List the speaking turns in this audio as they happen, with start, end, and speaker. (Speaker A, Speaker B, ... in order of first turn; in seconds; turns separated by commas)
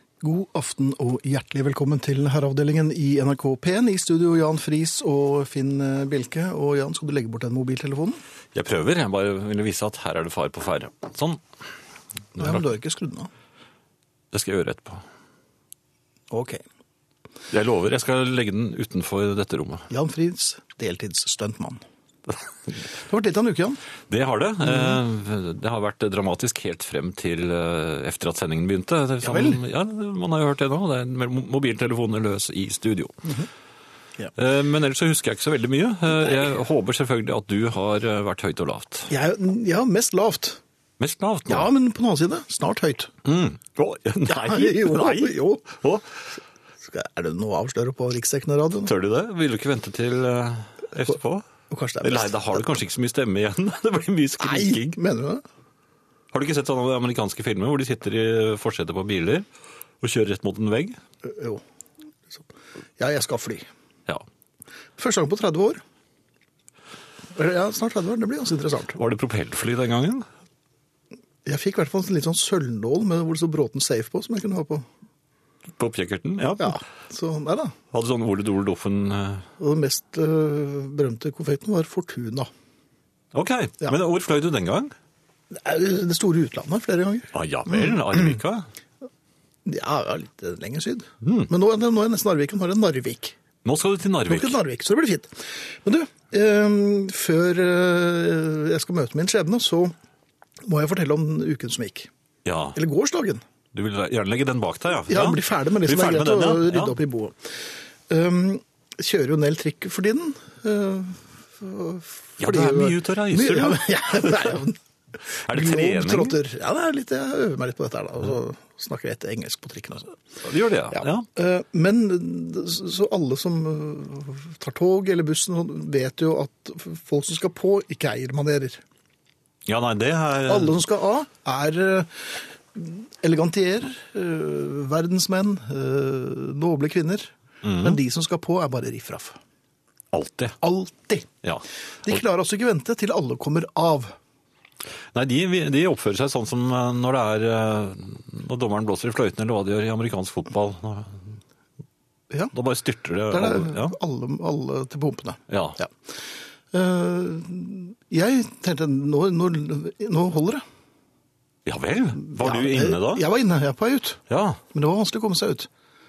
Speaker A: 0.2-8.2, Speaker B: 8.5-11.4, Speaker B: 12.4-12.6, Speaker A: 12.4-13.3, Speaker B: 14.3-15.1, Speaker A: 16.3-16.6, Speaker B: 17.5-19.9, Speaker A: 19.9-21.8, Speaker A: 23.0-23.8, Speaker B: 24.1-33.2, Speaker A: 24.6-25.0, Speaker A: 29.2-29.6, Speaker B: 34.4-39.1, Speaker A: 39.1-40.6, Speaker B: 41.0-41.7, Speaker A: 41.5-43.1, Speaker B: 43.2-46.1, Speaker A: 44.3-45.7, Speaker A: 46.8-48.9, Speaker B: 48.9-51.5, Speaker A: 51.7-52.7, Speaker B: 52.0-55.0, Speaker A: 54.4-55.4, Speaker B: 56.3-59.5, Speaker B: 60.0-61.0, Speaker A: 61.2-61.6, Speaker A: 63.0-63.7, Speaker A: 65.0-65.8, Speaker A: 67.3-69.0, Speaker B: 68.9-70.3, Speaker A: 71.5-74.9, Speaker B: 75.8-76.8, Speaker A: 76.6-77.8, Speaker B: 77.9-79.5, Speaker A: 79.6-82.5, Speaker B: 83.3-84.9, Speaker A: 85.5-88.4, Speaker B: 87.3-88.7, Speaker A: 89.7-93.4, Speaker B: 91.2-91.5, Speaker B: 93.6-94.6, Speaker A: 94.3-99.9, Speaker A: 100.6-102.1, Speaker B: 102.5-102.8, Speaker A: 102.8-103.4, Speaker B: 103.7-107.0, Speaker A: 105.1-114.8, Speaker B: 112.4-114.6, Speaker A: 115.3-120.2, Speaker B: 115.5-116.4, Speaker B: 120.4-121.3, Speaker A: 120.9-128.8, Speaker B: 129.7-130.8, Speaker A: 130.5-139.4, Speaker B: 137.6-138.0, Speaker B: 140.1-140.6, Speaker A: 140.6-141.3, Speaker B: 141.4-142.2, Speaker A: 142.0-144.2, Speaker B: 145.1-151.4, Speaker B: 152.5-153.9, Speaker A: 153.3-155.9, Speaker B: 155.5-155.8, Speaker A: 156.7-160.6, Speaker B: 161.7-163.2, Speaker A: 162.2-164.2, Speaker B: 164.3-164.6, Speaker A: 164.7-165.7